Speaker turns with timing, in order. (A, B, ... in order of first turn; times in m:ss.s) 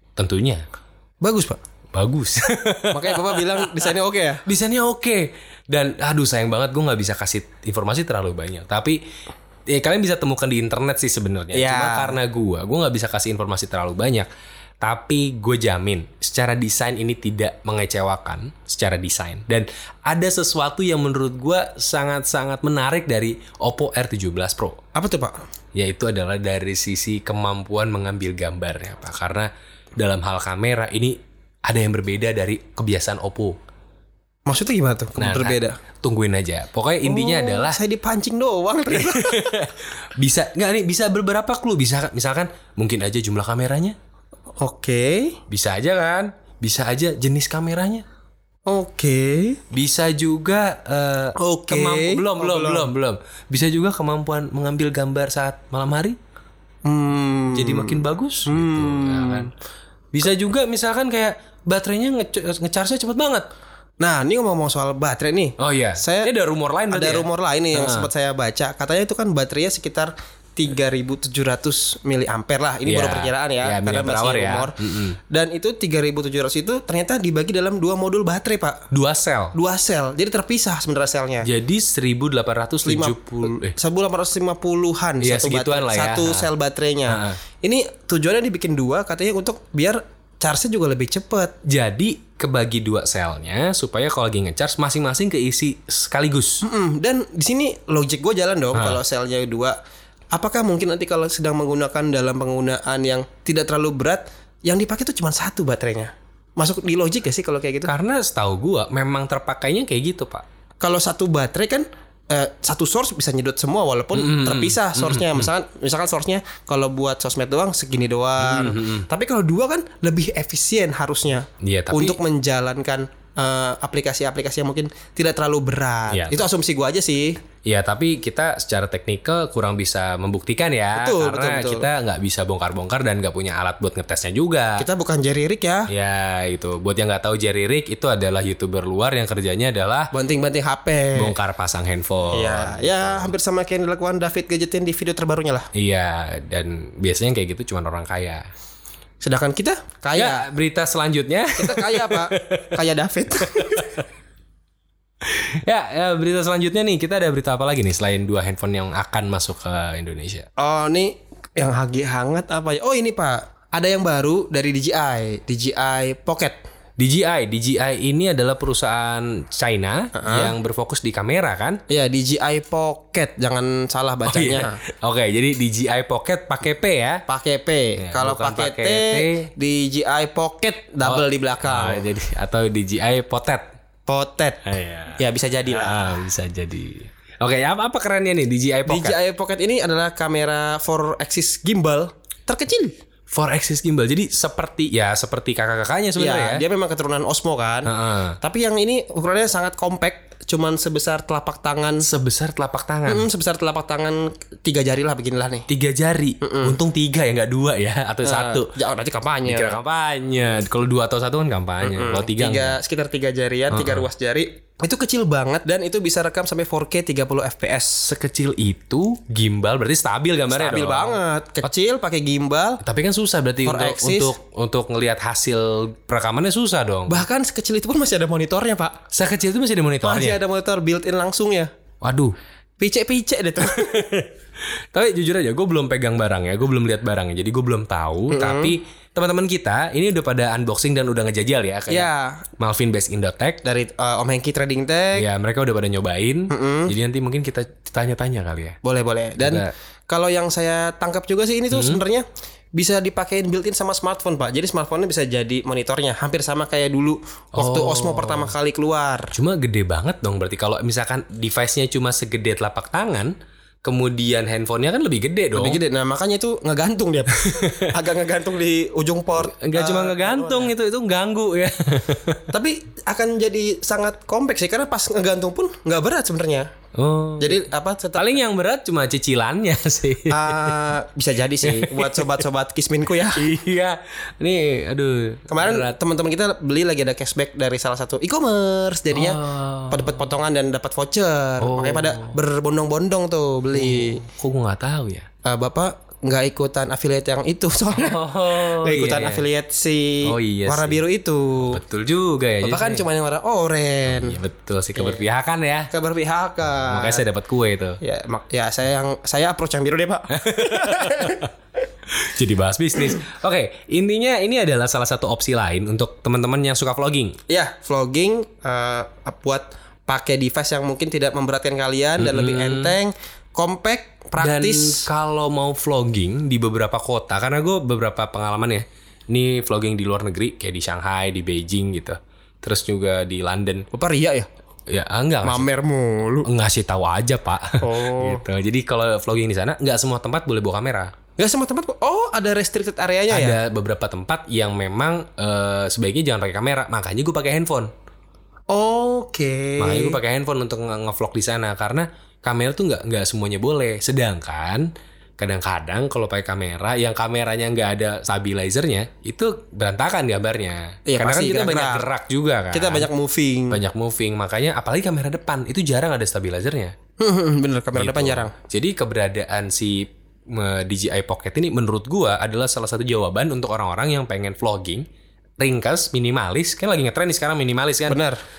0:00.2-0:00.6 A
0:01.2-0:01.6 B
0:01.9-0:03.9 A
0:02.9-0:04.4 B
0:04.5-0:09.0 A
0:09.7-0:14.3 A
0:11.5-0:12.2 B
0:14.8-0:24.8 A
0:24.9-0:25.4 B
0:25.8-0:33.6 A
0:34.5-0:35.8 B
0:35.2-0:37.8 A
0:37.0-0:39.6 B
0:38.9-0:44.0 A
0:44.6-0:45.4 B
0:45.5-0:48.0 A
0:48.7-0:49.6 B
0:49.7-0:56.2 A
0:51.4-0:52.9 B
0:56.8-0:59.5 B
0:57.5-0:59.5 A
1:00.1-1:03.5 A
1:04.0-1:06.3 B
1:05.6-1:08.1 A
1:06.9-1:18.9 B
1:12.8-1:15.2 A
1:18.9-1:19.6 A
1:19.5-1:21.5 B
1:21.4-1:23.8 A
1:22.8-1:31.6 B
1:25.2-1:26.5 A
1:27.1-1:27.4 A
1:31.7-1:36.6 A
1:36.6-1:39.8 B
1:38.7-1:39.0 A
1:40.3-1:47.9 B
1:47.9-1:50.4 A
1:50.8-2:07.4 B
1:54.1-1:55.5 A
1:58.4-1:59.1 A
2:01.6-2:02.2 A
2:06.1-2:06.4 A
2:07.6-2:14.9 A
2:11.0-2:11.9 B
2:14.8-2:15.9 B
2:15.9-2:20.1 A
2:20.1-2:21.4 B
2:21.2-2:23.3 A
2:22.3-2:25.7 B
2:25.7-2:28.5 A
2:29.2-2:30.5 B
2:30.2-2:32.8 A
2:31.6-2:34.0 B
2:33.4-2:34.0 A
2:35.2-2:40.5 A
2:40.6-2:46.6 B
2:47.0-2:51.8 A
2:50.2-2:50.6 B
2:51.9-2:54.8 B
2:54.3-2:57.2 A
2:57.3-3:02.1 B
2:58.0-2:59.5 A
3:01.0-3:03.7 A
3:04.1-3:04.6 B
3:04.6-3:09.2 A
3:05.2-3:06.0 B
3:08.8-3:13.0 B
3:13.3-3:16.6 A
3:16.2-3:22.1 B
3:17.9-3:18.4 A
3:22.0-3:23.3 A
3:23.1-3:25.7 B
3:25.7-3:28.8 A
3:26.4-3:26.8 B
3:28.2-3:29.8 B
3:29.4-3:32.8 A
3:31.8-3:38.1 B
3:33.7-3:34.1 A
3:38.0-3:41.2 A
3:40.5-3:42.8 B
3:42.8-3:47.2 A
3:43.6-3:44.3 B
3:47.1-3:49.0 B
3:49.1-3:50.4 A
3:50.0-3:51.7 B
3:52.0-3:52.4 A
3:52.8-3:54.1 B
3:53.7-3:54.3 A
3:54.9-4:03.6 A
3:58.3-3:58.7 B
4:01.9-4:02.5 B
4:03.6-4:05.3 B
4:05.1-4:08.8 A
4:06.5-4:06.9 B
4:08.8-4:19.3 B
4:09.4-4:09.7 A
4:11.7-4:12.0 A
4:17.6-4:18.5 A
4:19.3-4:25.8 A
4:25.5-4:30.7 B
4:27.4-4:28.0 A
4:29.4-4:32.5 A
4:32.5-4:36.7 B
4:37.0-4:37.6 A
4:37.4-4:38.3 B
4:38.2-4:40.8 A
4:40.3-4:43.5 B
4:41.6-4:42.4 A
4:43.3-4:45.9 A
4:45.5-4:54.2 B
4:49.1-4:50.2 A
4:51.6-4:52.4 A
4:53.7-4:55.3 A
4:55.4-5:01.8 B
4:57.9-4:59.4 A
5:00.2-5:01.0 A
5:01.6-5:03.0 A
5:02.6-5:04.4 B
5:04.1-5:05.9 A
5:05.0-5:05.3 B
5:05.9-5:07.2 B
5:06.7-5:08.0 A
5:08.0-5:11.4 B
5:10.3-5:11.5 A
5:12.1-5:17.4 A
5:17.5-5:25.1 B
5:22.2-5:23.0 A
5:24.4-5:33.9 A
5:33.9-5:34.5 B
5:34.9-5:35.7 A
5:35.4-5:36.5 B
5:36.4-5:41.1 A
5:37.8-5:38.4 B
5:41.4-5:43.6 B
5:43.3-5:47.9 A
5:48.7-5:50.2 B
5:49.8-6:03.1 A
6:01.1-6:02.1 B
6:02.7-6:03.8 B
6:03.7-6:07.0 A
6:07.2-6:08.5 B
6:08.0-6:15.1 A
6:15.6-6:18.2 A
6:18.1-6:18.4 B